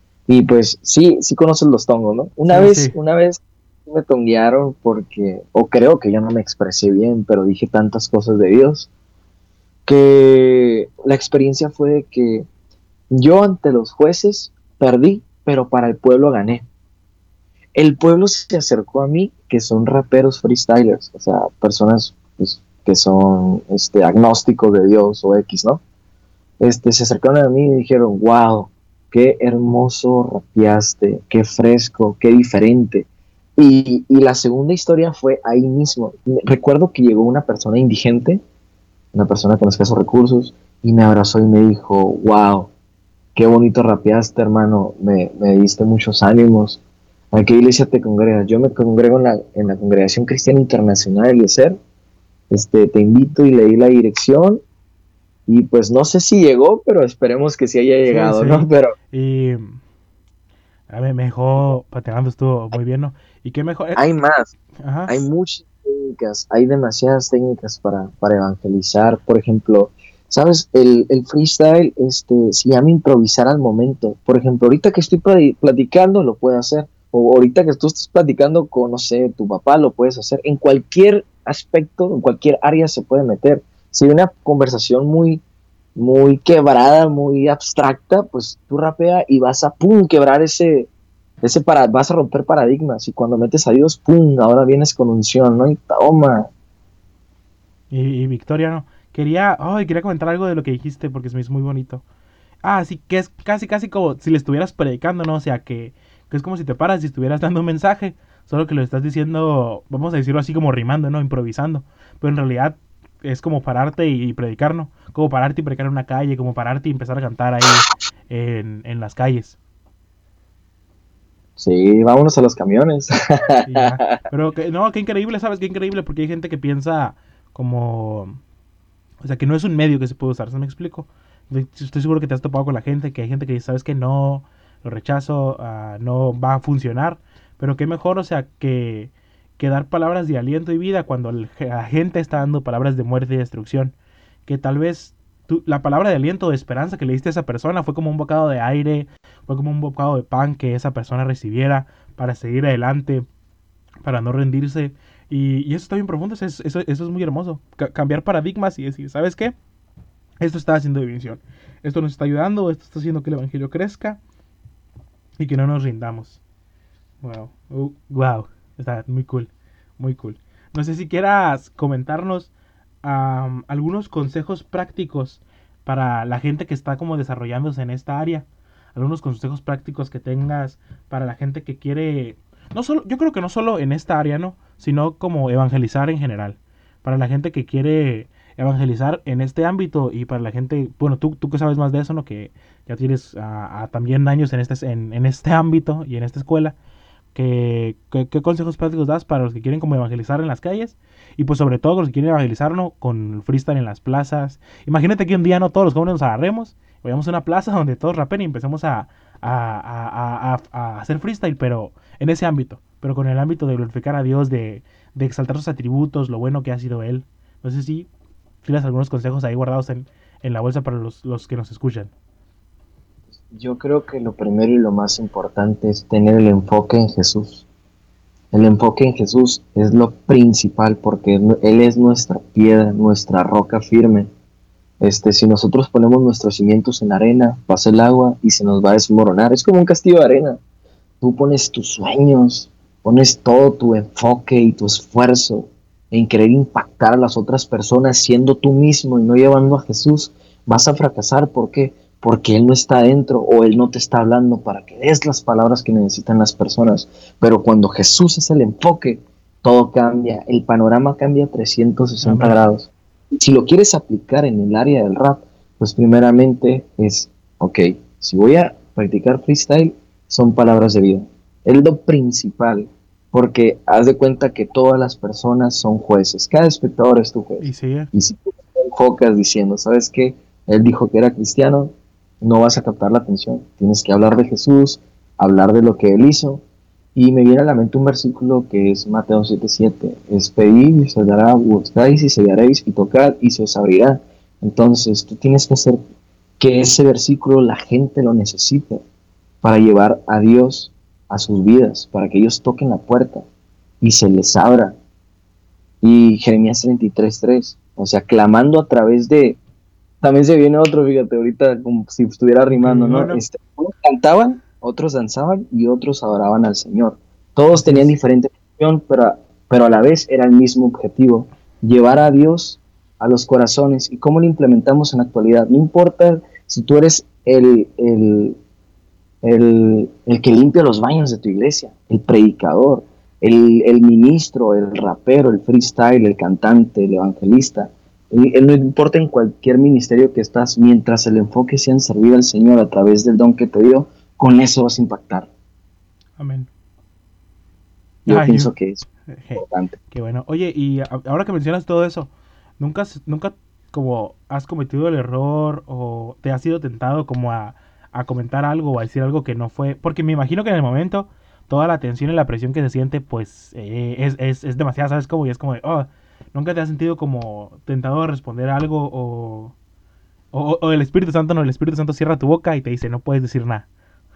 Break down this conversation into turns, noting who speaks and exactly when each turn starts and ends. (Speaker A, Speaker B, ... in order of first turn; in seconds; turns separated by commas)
Speaker A: 0.3-8.9, Speaker B: 2.5-3.0, Speaker A: 9.9-12.5, Speaker A: 13.1-16.7, Speaker A: 17.8-25.8, Speaker A: 26.6-38.4, Speaker A: 39.1-42.7, Speaker A: 43.4-46.8, Speaker A: 47.3-51.8, Speaker A: 52.5-54.6, Speaker A: 55.5-58.9, Speaker B: 58.0-59.8, Speaker B: 60.9-64.0, Speaker A: 64.0-64.5, Speaker B: 64.8-65.1, Speaker A: 65.1-85.4, Speaker A: 86.0-90.9, Speaker A: 91.4-96.5, Speaker B: 97.9-102.0, Speaker B: 102.6-119.6, Speaker A: 121.6-124.2, Speaker B: 123.7-128.4, Speaker B: 129.2-143.9, Speaker B: 144.5-153.3, Speaker B: 154.0-159.5, Speaker B: 160.4-164.2, Speaker B: 165.4-166.4, Speaker B: 167.2-172.5, Speaker B: 173.0-196.8, Speaker B: 197.3-218.1, Speaker B: 218.6-222.1, Speaker A: 223.5-227.7, Speaker A: 228.5-234.3, Speaker A: 235.0-240.6, Speaker A: 241.2-286.6, Speaker B: 262.2-262.6, Speaker B: 277.6-278.1, Speaker A: 287.1-296.0, Speaker A: 296.6-299.0, Speaker A: 299.6-303.4, Speaker A: 304.0-305.0, Speaker A: 306.0-309.6, Speaker A: 310.2-328.6, Speaker B: 312.7-313.4, Speaker B: 317.7-318.1, Speaker A: 329.4-345.5, Speaker B: 346.4-346.7, Speaker A: 348.3-349.0, Speaker B: 348.3-348.7, Speaker B: 349.3-369.8, Speaker A: 349.6-350.0, Speaker B: 370.5-373.9